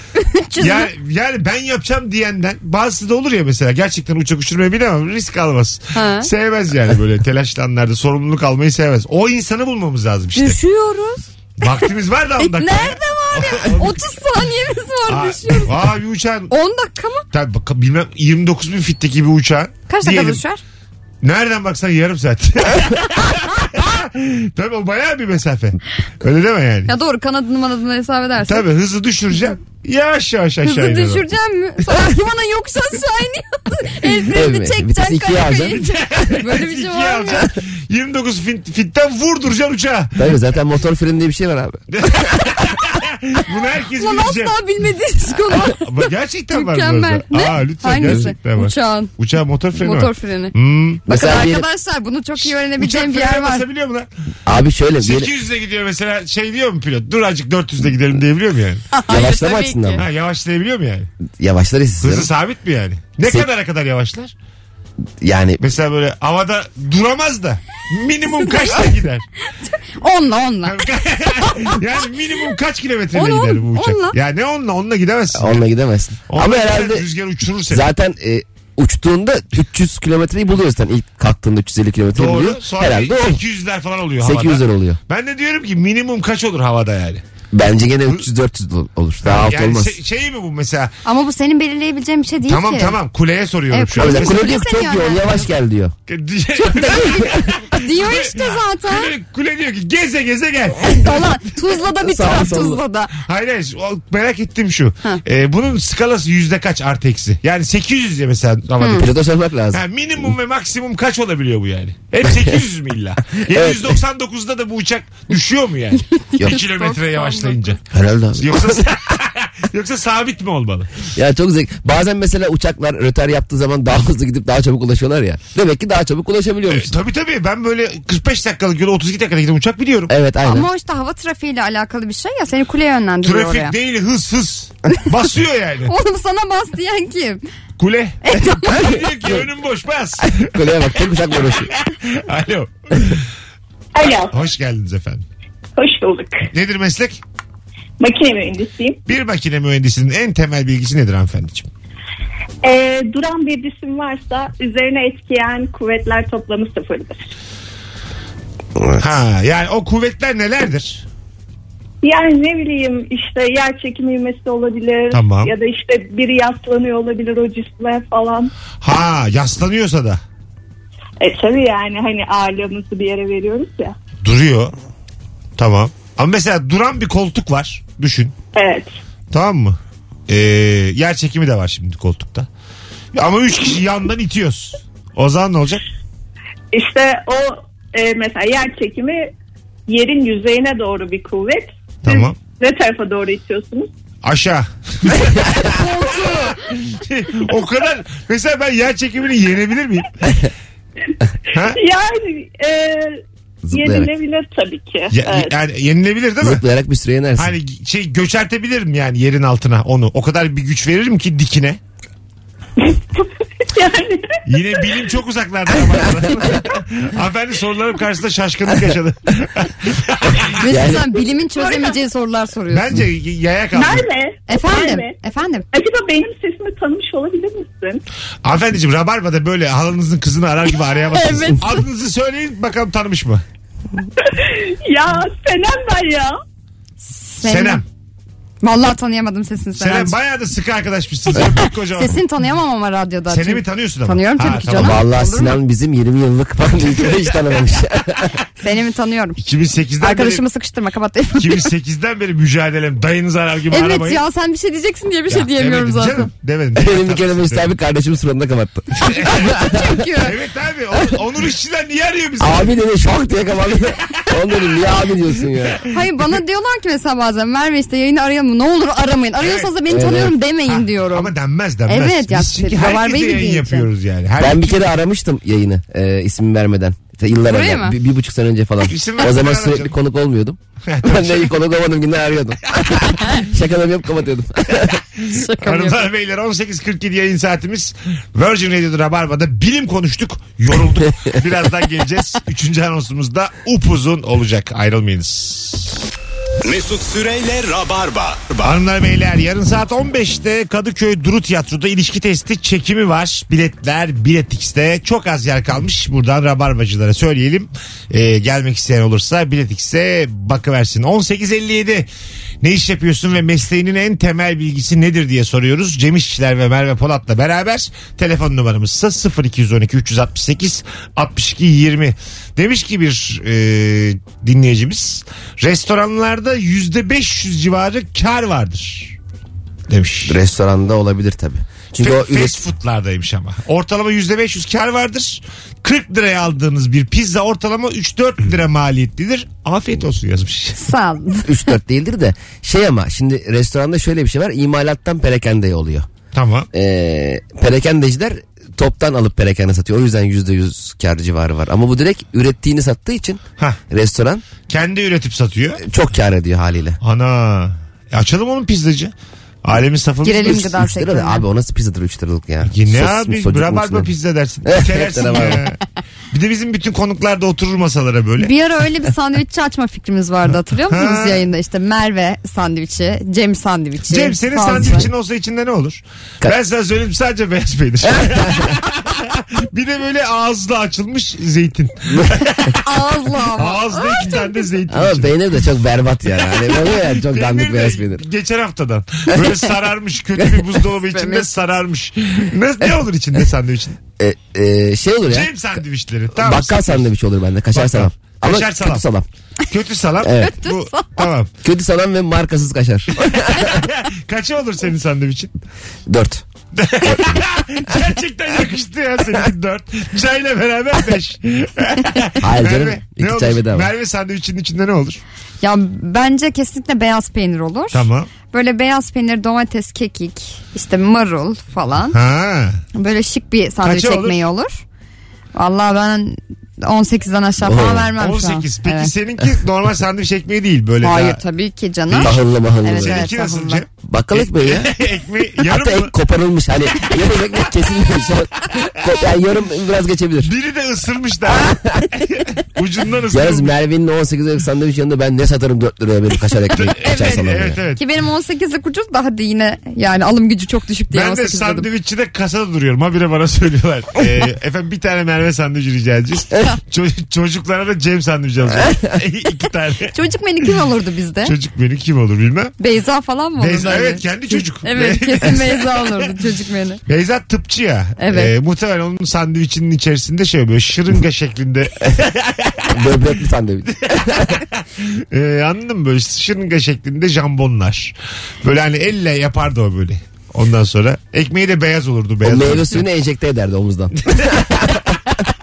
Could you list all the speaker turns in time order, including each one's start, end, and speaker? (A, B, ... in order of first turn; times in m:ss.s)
0:00.2-0:00.9 A
0:00.6-0:10.6 B
0:05.9-0:06.3 A
0:10.3-0:11.9 A
0:11.6-0:14.0 B
0:12.4-0:15.8 A
0:15.1-0:16.5 B
0:16.5-0:17.2 A
0:17.3-0:20.4 B
0:19.9-0:20.6 A
0:21.2-0:26.9 B
0:26.9-0:28.7 A
0:28.4-0:31.2 B
0:30.6-0:37.5 A
0:34.3-0:35.8 C
0:35.7-0:40.3 B
0:40.2-0:42.5 C
0:41.9-0:44.6 B
0:44.0-0:49.1 A
0:45.5-0:51.0 B
0:48.0-0:48.3 C
0:49.8-0:50.5 A
0:51.0-0:51.6 C
0:51.0-0:53.7 A
0:52.4-0:54.1 B
0:54.4-0:55.3 C
0:55.0-0:58.8 B
0:58.9-1:00.0 A
0:59.1-1:00.0 C
1:00.0-1:01.1 B
1:01.4-1:02.3 C
1:02.0-1:04.3 B
1:05.2-1:05.6 C
1:05.6-1:09.2 B
1:08.3-1:08.9 A
1:09.7-1:12.0 A
1:10.6-1:15.6 B
1:13.1-1:14.2 A
1:15.3-1:17.1 C
1:16.3-1:17.9 B
1:17.7-1:23.4 C
1:22.1-1:27.2 B
1:24.2-1:25.0 C
1:27.5-1:30.0 C
1:29.2-1:30.9 B
1:31.0-1:33.0 A
1:32.4-1:34.4 B
1:33.7-1:35.5 A
1:34.0-1:35.9 C
1:36.1-1:41.2 B
1:36.6-1:39.1 A
1:40.9-1:43.2 A
1:42.0-1:42.8 C
1:43.2-1:49.1 B
1:48.8-1:49.1 A
1:48.9-1:50.3 C
1:49.7-1:57.8 B
1:52.2-1:52.6 C
1:53.5-1:54.0 C
1:56.2-1:57.8 A
1:57.9-1:58.8 C
1:58.4-2:00.9 B
2:01.2-2:06.9 C
2:06.7-2:10.1 B
2:10.1-2:10.7 C
2:10.4-2:13.7 A
2:13.2-2:15.9 B
2:15.8-2:17.4 A
2:17.8-2:23.2 B
2:18.3-2:18.9 A
2:18.8-2:19.4 C
2:20.3-2:21.7 C
2:23.9-2:24.4 D
2:24.3-2:25.2 B
2:25.8-2:26.5 D
2:26.5-2:27.2 B
2:28.0-2:29.0 D
2:29.1-2:31.7 B
2:32.6-2:37.3 D
2:39.0-2:41.0 B
2:42.0-2:48.5 D
2:45.1-2:45.5 B
2:48.8-2:50.2 B
2:51.2-2:54.0 D
2:54.2-2:54.7 B
2:55.6-2:58.3 B
2:58.5-2:58.9 D
2:59.3-3:02.5 B
3:03.1-3:05.8 B
3:06.7-3:09.3 D
3:09.9-3:13.9 D
3:12.0-3:12.4 B
3:14.2-3:20.5 B
3:21.5-3:21.8 B
3:21.5-3:25.5 D
3:23.6-3:24.1 C
3:25.1-3:26.6 B
3:26.4-3:27.5 C
3:27.4-3:31.8 B
3:32.8-3:35.0 D
3:34.4-3:40.5 B
3:40.6-3:43.0 A
3:40.6-3:41.1 C
3:41.5-3:42.0 D
3:42.7-3:44.0 B
3:43.7-3:45.2 D
3:44.5-3:45.6 A
3:45.7-3:48.0 D
3:48.4-3:53.4 B
3:51.1-3:51.8 A
3:54.2-3:56.4 D
3:57.1-3:57.8 A
3:57.4-3:57.8 B
3:58.6-4:00.2 A
3:59.8-4:02.2 B
4:01.5-4:05.6 A
4:03.3-4:05.0 B
4:04.8-4:08.3 C
4:08.6-4:09.4 A
4:09.4-4:10.4 B
4:10.0-4:11.7 A
4:11.3-4:14.2 B
4:13.7-4:16.3 A
4:15.3-4:17.7 B
4:16.8-4:19.9 C
4:19.0-4:19.5 B
4:19.2-4:20.3 A
4:20.1-4:22.7 B
4:22.4-4:25.8 C
4:25.8-4:26.3 B
4:25.9-4:31.3 A
4:29.4-4:29.8 B
4:29.9-4:30.3 C
4:30.7-4:34.8 B
4:31.8-4:33.9 A
4:34.4-4:45.0 C
4:37.4-4:38.0 A
4:38.8-4:39.9 B
4:40.9-4:41.5 B
4:45.2-4:46.1 A
4:45.5-4:56.0 B
4:56.6-4:58.8 E
4:58.6-5:12.1 B
5:12.6-5:29.2 B
5:29.9-5:30.4 B
5:30.2-5:32.6 C
5:32.0-5:40.8 B
5:40.8-5:41.7 A
5:41.4-5:46.1 C
5:46.3-5:46.7 B
5:46.7-5:54.4 C
5:54.7-5:55.8 B
5:55.8-5:57.0 C
5:57.0-5:59.1 B
5:59.6-6:00.8 B
6:00.2-6:01.4 A
6:00.4-6:04.1 C
6:02.6-6:05.8 B
6:04.6-6:05.6 C
6:06.3-6:08.5 B
6:08.4-6:15.1 A
6:10.9-6:11.4 B
6:14.1-6:22.8 B
6:18.1-6:18.7 C
6:22.8-6:24.7 A
6:23.6-6:25.6 B
6:24.9-6:28.2 C
6:26.8-6:34.0 B
6:30.4-6:30.7 C
6:31.0-6:31.5 A
6:34.2-6:35.6 C
6:35.3-6:37.0 B
6:36.3-6:39.2 C
6:37.7-6:39.0 B
6:39.7-6:41.5 B
6:40.2-6:40.5 C
6:40.4-6:41.3 A
6:41.6-6:43.8 C
6:43.6-6:45.5 B
6:46.1-6:46.4 C
6:46.7-6:55.2 B
6:52.4-6:53.9 C
6:55.6-7:02.2 A
6:57.9-6:58.3 B
7:02.1-7:02.8 B
7:02.9-7:04.8 A
7:03.8-7:04.4 B
7:05.5-7:09.1 A
7:07.6-7:08.1 C
7:08.2-7:11.4 B
7:11.0-7:13.8 A
7:12.1-7:16.1 B
7:12.2-7:13.2 C
7:14.0-7:14.9 C
7:15.6-7:20.5 C
7:20.4-7:23.7 B
7:21.5-7:22.1 C
7:23.3-7:27.8 C
7:26.7-7:28.0 B
7:27.0-7:27.4 A
7:27.9-7:31.9 A
7:31.1-7:40.1 B
7:40.1-7:41.5 A
7:41.4-7:42.7 B
7:42.8-7:47.0 A
7:43.6-7:46.2 B
7:47.1-7:53.0 B
7:48.2-7:48.5 A
7:52.9-7:54.6 C
7:54.0-8:03.0 B
8:02.4-8:05.2 C